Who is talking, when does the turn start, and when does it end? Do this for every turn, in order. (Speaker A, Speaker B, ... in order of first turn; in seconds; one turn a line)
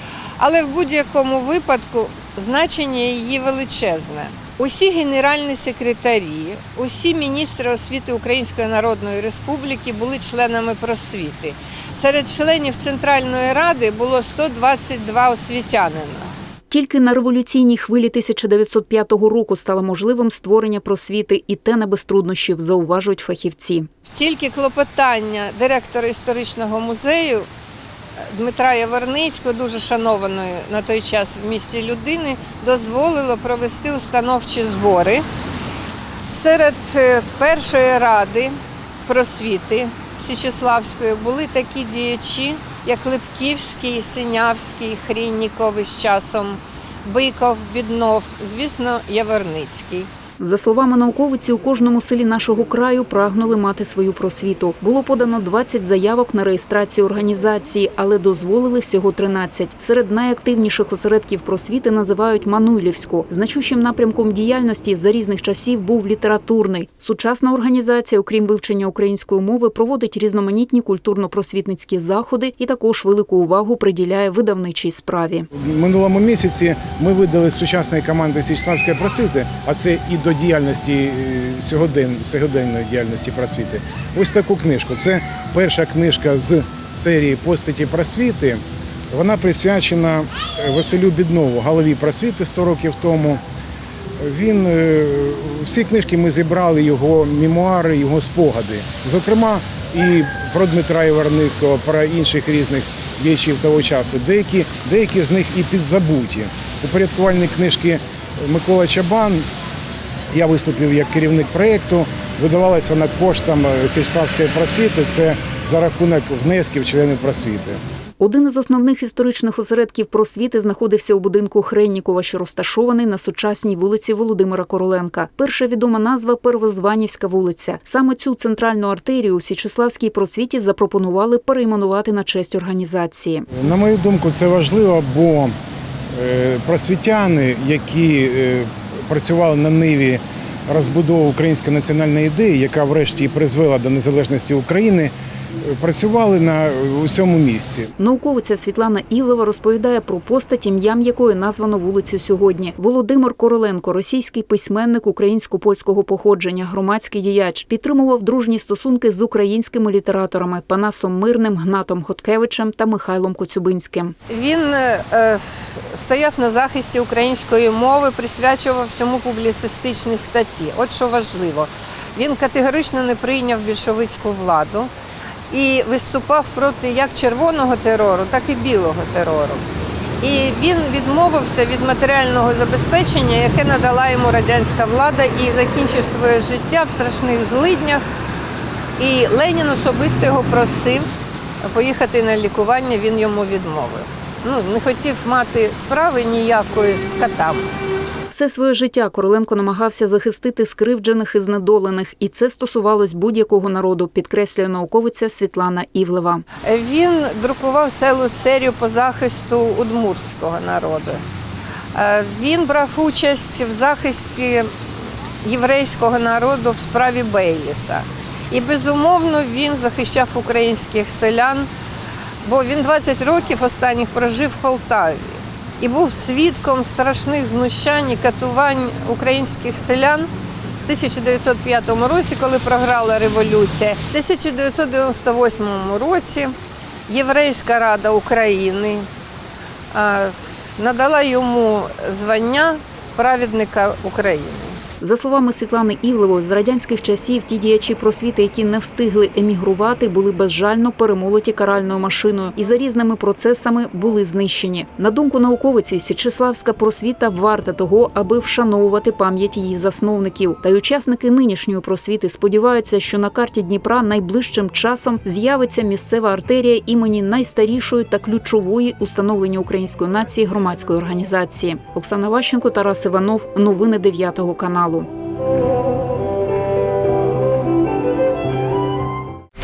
Speaker A: 0.4-16.3
Speaker B: 16.7-23.9
Speaker A: 24.1-27.5
Speaker A: 28.3-35.2
Speaker A: 36.3-50.1
Speaker B: 50.4-75.5
Speaker C: 75.5-93.4
Speaker C: 94.2-109.5
Speaker C: 110.3-117.8
Speaker B: 118.2-133.5
Speaker C: 133.5-135.6
Speaker C: 136.1-147.9
Speaker B: 148.0-164.2
Speaker A: 164.3-174.9
Speaker A: 175.5-179.6
Speaker A: 180.2-188.0
Speaker A: 189.0-191.1
Speaker A: 191.7-197.7
Speaker B: 198.3-206.4
Speaker A: 206.7-211.2
Speaker A: 211.9-214.7
Speaker A: 215.4-221.7
Speaker A: 222.4-230.3
Speaker A: 230.8-236.5
Speaker A: 237.1-239.1
Speaker A: 239.9-244.8
Speaker B: 245.0-275.1